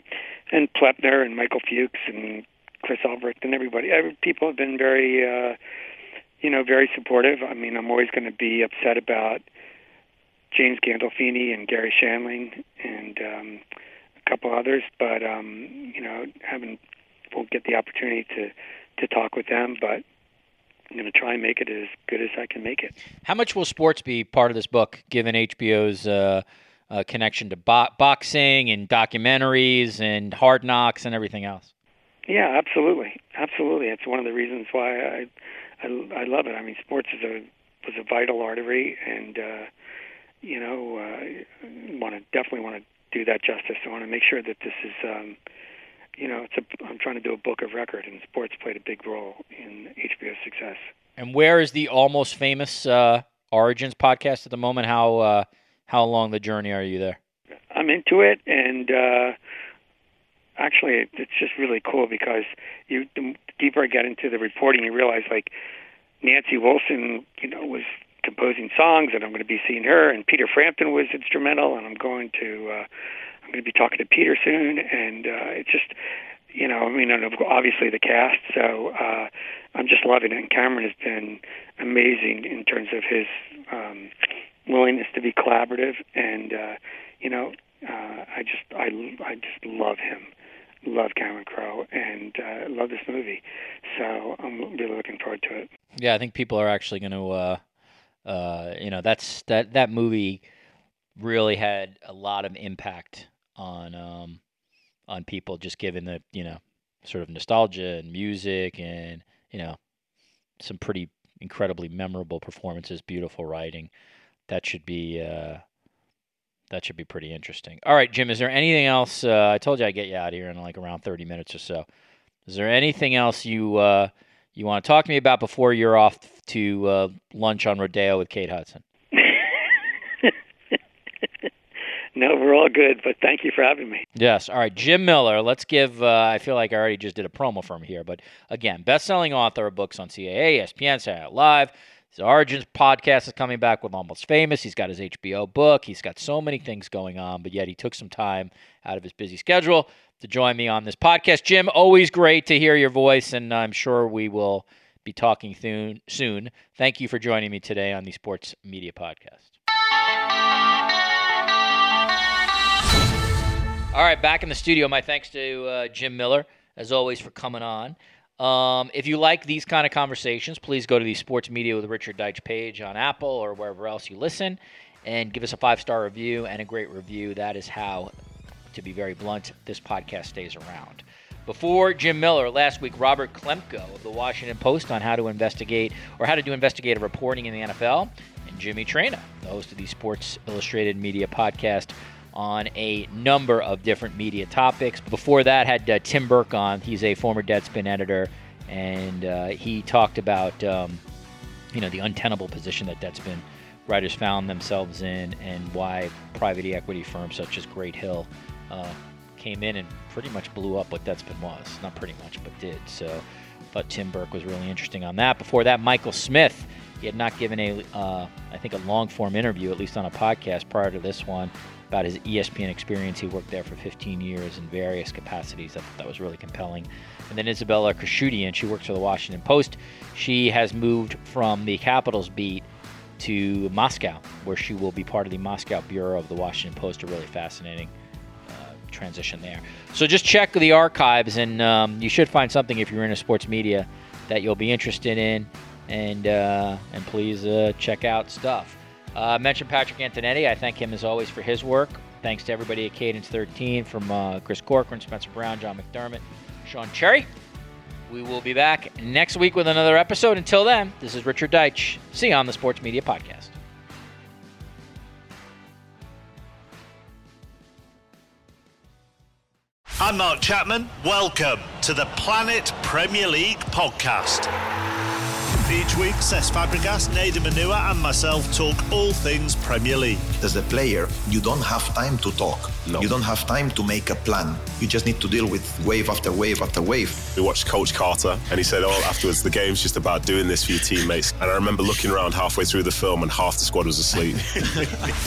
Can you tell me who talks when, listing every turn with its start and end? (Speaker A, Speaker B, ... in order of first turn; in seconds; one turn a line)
Speaker A: 0.5-5.6
Speaker A: 6.4-9.4
Speaker A: 10.5-13.6
Speaker A: 14.2-16.8
Speaker A: 17.3-20.0
Speaker A: 20.9-22.9
Speaker B: 23.2-31.7
Speaker A: 32.3-35.3
Speaker A: 35.8-39.7
Speaker A: 40.4-45.4
Speaker A: 46.2-50.9
Speaker B: 51.2-57.2
Speaker A: 57.7-59.4
Speaker A: 60.6-65.5
Speaker A: 66.2-72.8
Speaker A: 73.5-76.0
Speaker A: 76.5-84.1
Speaker A: 84.7-90.3
Speaker A: 90.8-95.7
Speaker B: 96.0-97.6
Speaker B: 98.2-100.4
Speaker B: 101.2-104.4
Speaker B: 105.1-109.8
Speaker B: 110.6-113.9
Speaker B: 114.5-115.6
Speaker B: 116.7-121.9
Speaker B: 122.5-128.8
Speaker A: 129.1-130.3
Speaker A: 132.1-134.0
Speaker B: 134.2-159.6
Speaker B: 163.9-178.1
Speaker B: 178.7-201.0
Speaker B: 201.7-232.6
Speaker B: 233.2-237.9
Speaker B: 238.5-257.3
Speaker B: 258.1-263.5
Speaker C: 270.0-274.5
Speaker C: 275.6-280.3
Speaker D: 280.3-287.3
Speaker E: 287.4-295.1